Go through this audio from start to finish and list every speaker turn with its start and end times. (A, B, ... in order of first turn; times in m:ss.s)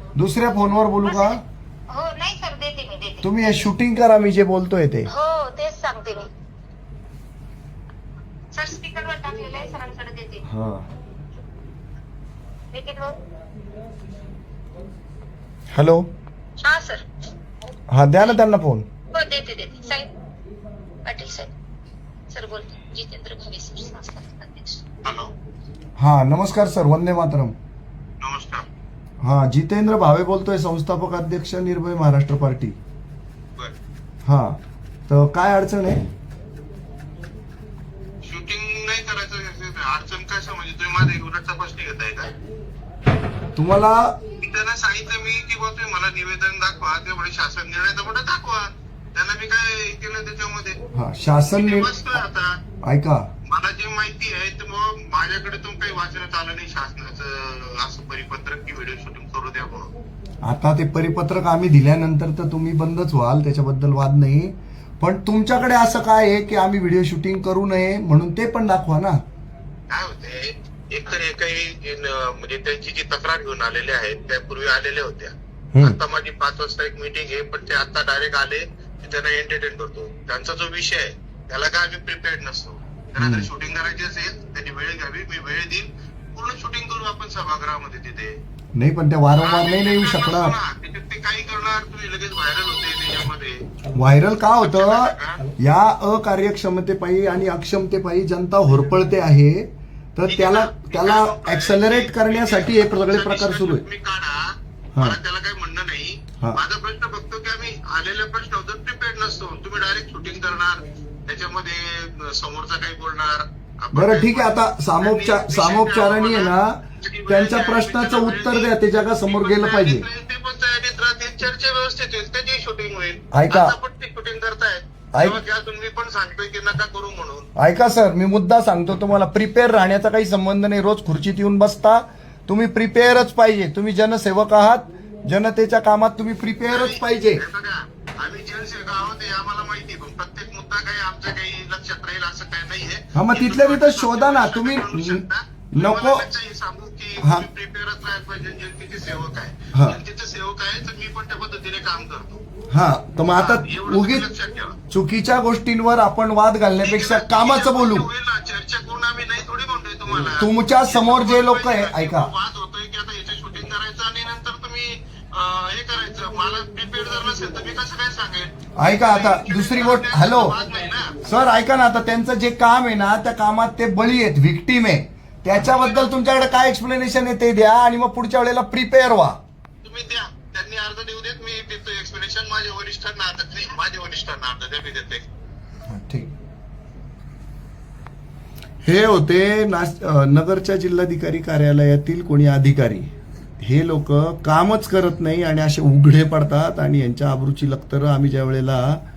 0:00.2-0:01.4 A
0:01.0-0:01.4 B
0:01.9-0:03.3 B
0:03.2-0:05.1 A
0:05.1-0:06.3 B
0:08.5-0:10.4 B
0:10.5-0:10.9 A
0:12.7-0:13.2 B
0:15.7-0:16.1 A
0:16.6-0:17.0 B
0:17.9-0:18.9 A
0:19.1-0:20.1 B
0:21.0-0:21.5 B
0:22.3-0:24.8 B
0:25.0-0:25.3 C
0:26.0-0:27.6 A
0:28.2-0:28.6 C
0:29.2-0:32.8 A
0:34.2-0:36.0 A
0:38.2-0:42.3 C
0:43.6-0:44.2 A
0:44.4-0:50.8 C
0:50.9-0:51.9 A
0:51.5-0:52.6 C
0:52.8-0:53.3 A
0:53.5-0:59.9 C
1:00.4-1:09.2 A
1:09.9-1:28.4 C
1:15.7-1:16.0 A
1:23.2-1:23.5 A
1:28.8-1:30.6 A
1:29.4-1:33.7 C
1:33.9-1:43.8 A
1:34.6-1:35.4 C
1:40.3-2:07.5 C
1:53.9-2:00.1 A
2:03.3-2:03.8 A
2:05.1-2:05.4 A
2:07.6-2:17.4 A
2:16.7-2:32.4 C
2:23.1-2:26.3 A
2:27.2-2:27.5 A
2:29.7-2:30.0 A
2:32.7-2:34.3 A
2:33.3-2:34.8 C
2:34.9-2:38.1 A
2:36.8-2:51.2 C
2:40.2-2:42.3 A
2:48.8-2:50.6 A
2:51.2-2:59.4 A
2:55.5-2:56.1 C
2:59.8-3:05.3 C
3:05.9-3:06.3 A
3:08.8-3:13.1 A
3:13.6-3:19.0 A